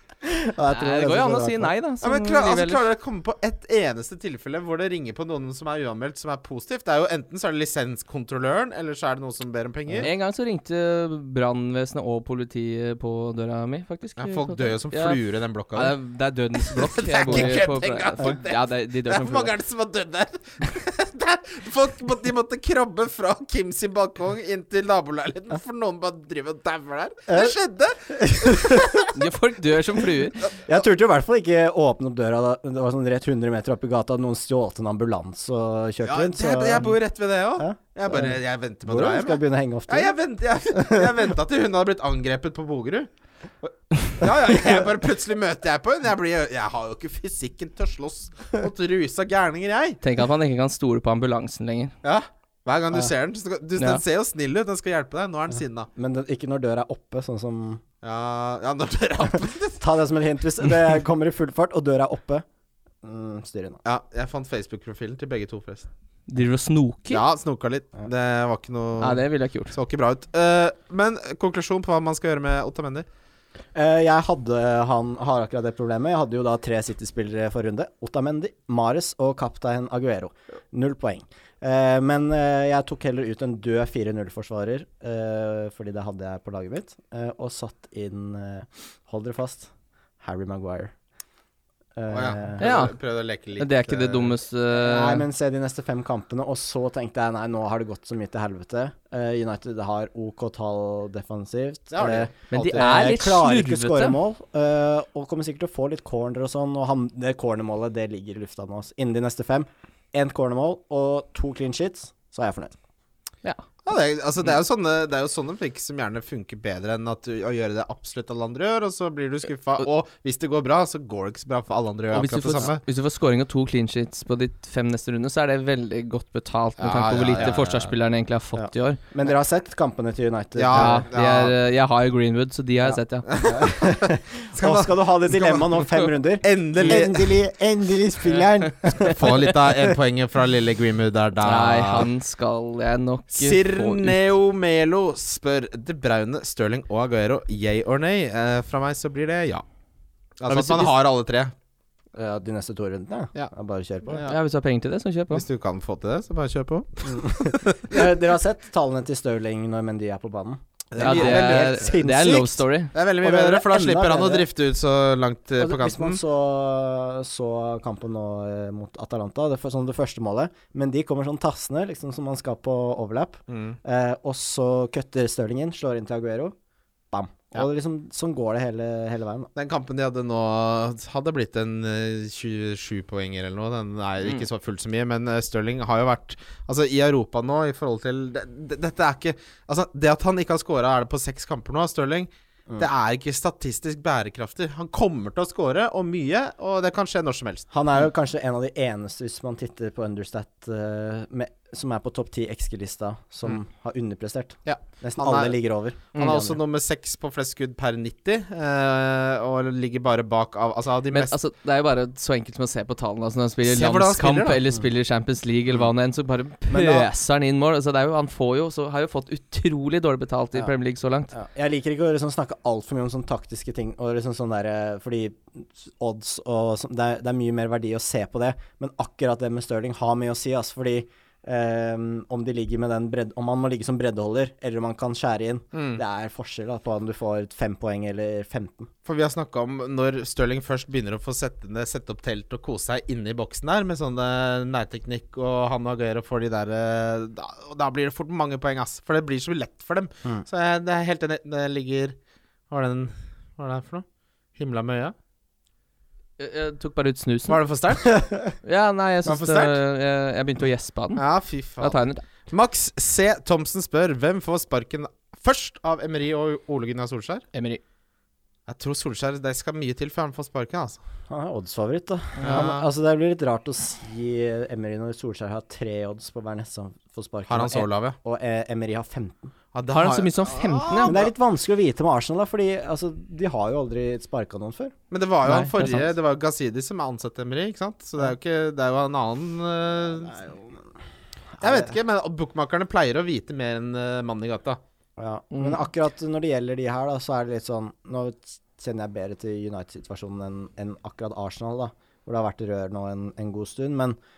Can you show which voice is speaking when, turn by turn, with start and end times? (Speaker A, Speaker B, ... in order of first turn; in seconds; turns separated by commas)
Speaker A: 0.2-1.7, Speaker B: 0.7-2.8, Speaker C: 2.0-10.1, Speaker B: 10.0-15.2, Speaker C: 14.2-15.9, Speaker B: 15.7-19.5, Speaker C: 16.6-29.1, Speaker A: 27.3-27.6, Speaker A: 28.1-29.1, Speaker B: 29.1-30.5, Speaker A: 30.6-37.0, Speaker C: 36.0-43.1, Speaker A: 37.6-40.1, Speaker A: 40.7-41.2, Speaker C: 43.6-50.0, Speaker B: 50.0-51.9, Speaker C: 52.0-55.9, Speaker A: 56.0-57.8, Speaker C: 58.0-59.8, Speaker A: 59.8-62.5, Speaker A: 63.0-63.8, Speaker C: 63.8-65.9, Speaker B: 66.3-67.2, Speaker C: 67.1-73.0, Speaker B: 69.0-69.7, Speaker A: 73.7-89.7, Speaker A: 90.2-90.9, Speaker A: 92.0-92.6, Speaker C: 92.1-94.4, Speaker B: 92.6-93.0, Speaker B: 93.6-95.2, Speaker A: 94.7-112.7, Speaker C: 101.9-103.0, Speaker B: 102.5-104.2, Speaker C: 113.9-122.8, Speaker B: 122.1-129.0, Speaker C: 126.8-127.9, Speaker A: 128.6-131.1, Speaker C: 130.6-131.5, Speaker B: 130.7-133.3, Speaker A: 132.9-139.8, Speaker C: 133.3-137.4, Speaker C: 138.9-142.1, Speaker B: 141.4-144.2, Speaker C: 143.3-149.6, Speaker C: 150.4-151.5, Speaker A: 150.5-150.9, Speaker A: 152.1-154.2, Speaker C: 154.1-154.4, Speaker B: 154.2-155.4, Speaker C: 155.3-158.1, Speaker A: 157.1-162.6, Speaker C: 160.9-161.9, Speaker B: 161.0-162.9, Speaker C: 162.9-166.2, Speaker A: 163.2-164.5, Speaker A: 165.6-176.5, Speaker C: 173.5-173.8, Speaker A: 177.1-179.5, Speaker C: 179.6-197.7, Speaker A: 197.7-206.6, Speaker C: 204.7-205.6, Speaker C: 206.1-211.3, Speaker B: 211.1-221.3, Speaker C: 213.6-214.6, Speaker A: 216.7-217.1, Speaker A: 221.3-238.9, Speaker C: 235.7-236.0, Speaker C: 239.1-252.2, Speaker C: 252.7-254.1, Speaker C: 254.6-255.1, Speaker B: 256.4-257.6, Speaker C: 257.5-258.3, Speaker B: 258.6-261.2, Speaker C: 259.2-259.8, Speaker C: 261.1-267.4, Speaker B: 261.8-262.2, Speaker B: 267.5-267.8, Speaker C: 268.7-271.0, Speaker A: 271.3-279.5, Speaker B: 272.4-272.6, Speaker C: 272.4-272.9, Speaker C: 277.5-278.2, Speaker C: 279.7-281.3, Speaker B: 279.9-281.2, Speaker A: 281.1-284.9, Speaker C: 285.1-290.4, Speaker B: 285.4-286.1, Speaker A: 290.2-290.8, Speaker A: 291.6-291.9, Speaker C: 291.6-294.8, Speaker A: 295.2-304.2, Speaker B: 295.5-295.8